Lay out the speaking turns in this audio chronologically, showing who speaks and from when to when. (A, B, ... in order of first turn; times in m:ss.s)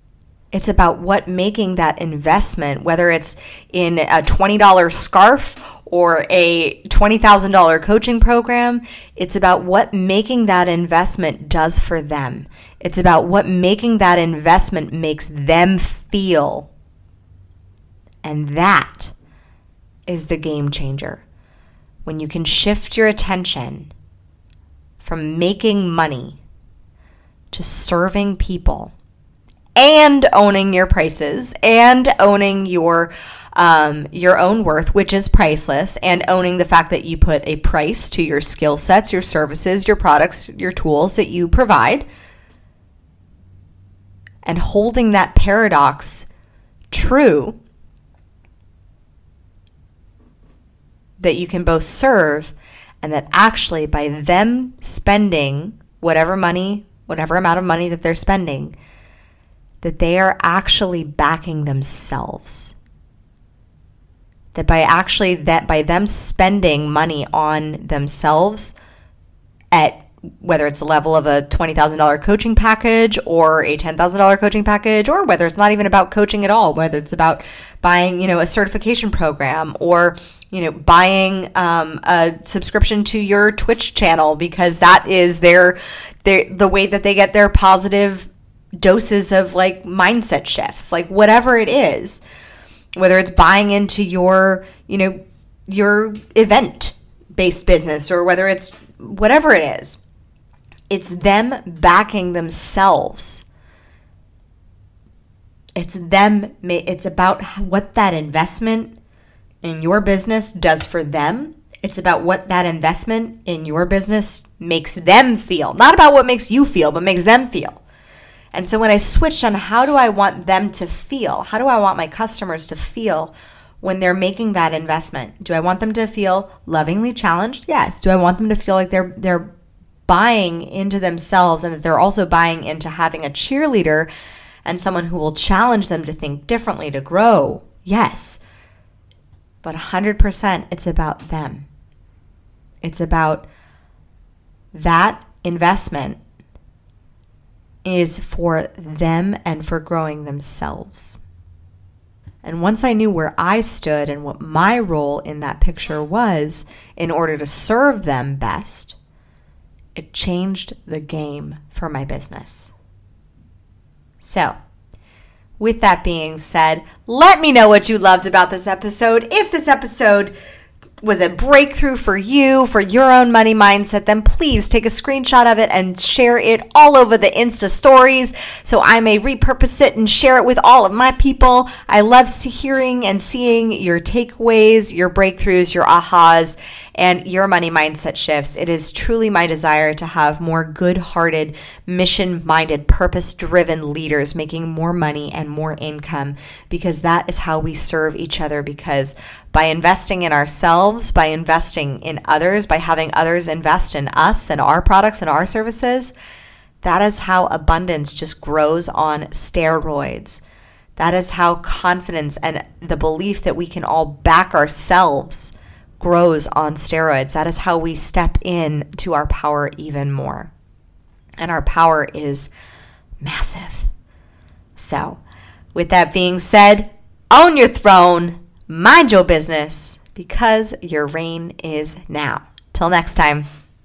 0:00.5-0:16.7 A
0:18.2-0:19.1 A
0:20.1-0:21.2 A
0:22.0-0:23.9 A
0:25.0-0:26.4 A
0:27.5-0:28.9 A
0:29.8-0:42.0 A
0:44.4-0:46.3 A
0:46.9-0:47.6 A
0:51.2-0:58.7 A
0:59.8-1:02.7 A
1:04.5-1:08.7 A
1:09.7-1:28.3 A
1:28.8-1:32.2 A
1:33.0-1:40.0 A
1:40.9-1:43.4 A
1:45.8-1:48.9 A
1:49.6-1:57.8 A
1:58.5-2:09.5 A
2:10.1-2:14.1 A
2:14.6-2:18.4 A
2:19.6-2:21.6 A
2:22.8-2:23.4 A
2:24.7-2:26.2 A
2:27.8-2:31.2 A
2:32.4-2:39.0 A
2:40.0-2:42.7 A
2:44.2-2:44.5 A
2:45.6-2:50.3 A
2:51.0-3:26.1 A
3:26.8-3:30.4 A
3:31.0-3:40.5 A
3:41.4-3:42.5 A
3:43.2-3:43.9 A
3:44.8-3:45.2 A
3:45.7-3:53.5 A